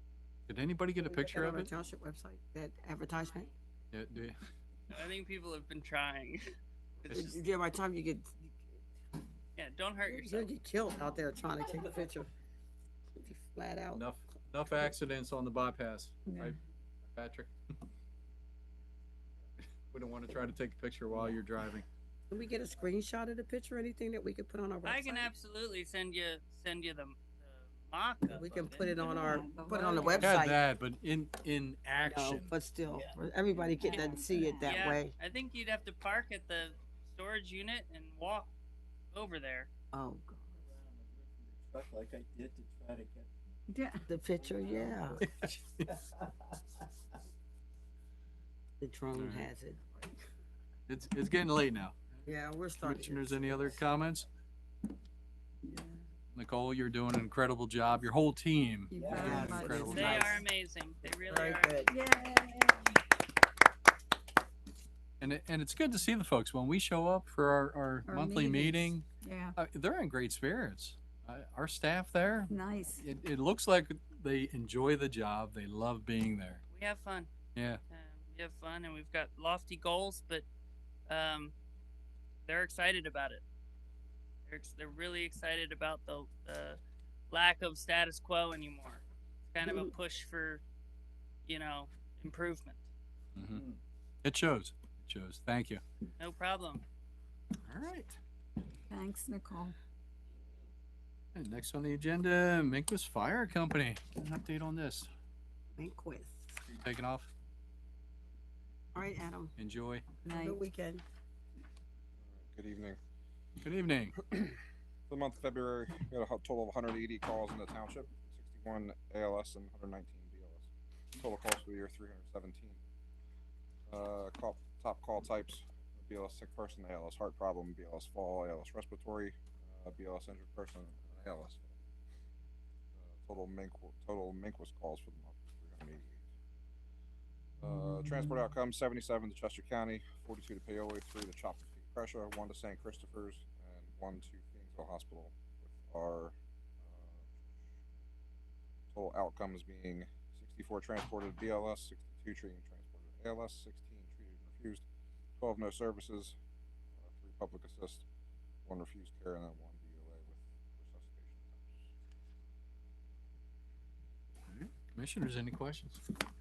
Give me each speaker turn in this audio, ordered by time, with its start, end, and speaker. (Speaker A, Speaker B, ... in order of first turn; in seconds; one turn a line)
Speaker A: 0.5-1.7
Speaker B: 1.0-3.5
Speaker A: 3.9-4.4
Speaker C: 4.9-6.4
Speaker C: 7.0-7.3
Speaker A: 7.1-7.3
Speaker B: 7.1-8.6
Speaker C: 9.6-10.5
Speaker B: 10.1-12.3
Speaker B: 13.2-14.0
Speaker A: 13.9-16.6
Speaker D: 16.2-16.6
Speaker A: 17.1-17.5
Speaker A: 19.9-21.9
Speaker B: 22.3-25.3
Speaker C: 24.8-28.9
Speaker B: 28.3-30.6
Speaker D: 28.8-30.3
Speaker A: 30.2-32.6
Speaker B: 32.0-35.1
Speaker E: 32.9-34.5
Speaker D: 33.9-34.8
Speaker C: 34.6-38.5
Speaker C: 39.1-39.7
Speaker B: 39.9-40.6
Speaker E: 41.4-43.3
Speaker D: 43.7-44.0
Speaker B: 44.0-45.2
Speaker A: 45.2-45.9
Speaker B: 48.8-50.1
Speaker A: 49.1-49.5
Speaker A: 50.9-52.0
Speaker B: 52.2-53.8
Speaker A: 52.8-54.3
Speaker A: 56.3-58.9
Speaker D: 58.9-60.4
Speaker E: 58.9-59.3
Speaker B: 59.1-60.4
Speaker C: 59.4-61.9
Speaker B: 61.3-61.9
Speaker D: 61.9-62.9
Speaker A: 65.2-76.6
Speaker D: 68.0-69.6
Speaker D: 72.5-73.0
Speaker C: 76.7-77.3
Speaker A: 77.5-77.8
Speaker C: 77.9-80.4
Speaker C: 81.1-81.5
Speaker C: 82.5-83.4
Speaker C: 84.5-86.8
Speaker C: 87.3-90.6
Speaker C: 91.5-92.8
Speaker A: 93.3-93.6
Speaker A: 94.2-95.8
Speaker C: 96.2-96.8
Speaker A: 97.6-98.2
Speaker D: 98.9-99.7
Speaker A: 101.3-105.1
Speaker B: 105.8-106.5
Speaker A: 106.7-107.3
Speaker B: 108.9-109.5
Speaker A: 109.6-110.0
Speaker D: 110.2-110.6
Speaker B: 110.2-111.0
Speaker F: 112.3-113.0
Speaker A: 113.6-114.1
Speaker F: 115.1-122.8
Speaker F: 123.9-131.7
Speaker F: 133.2-136.2
Speaker F: 137.6-146.3
Speaker F: 146.9-147.2
Speaker F: 148.9-154.8
Speaker F: 155.4-156.3
Speaker F: 157.0-158.1
Speaker F: 158.7-161.7
Speaker A: 164.5-166.0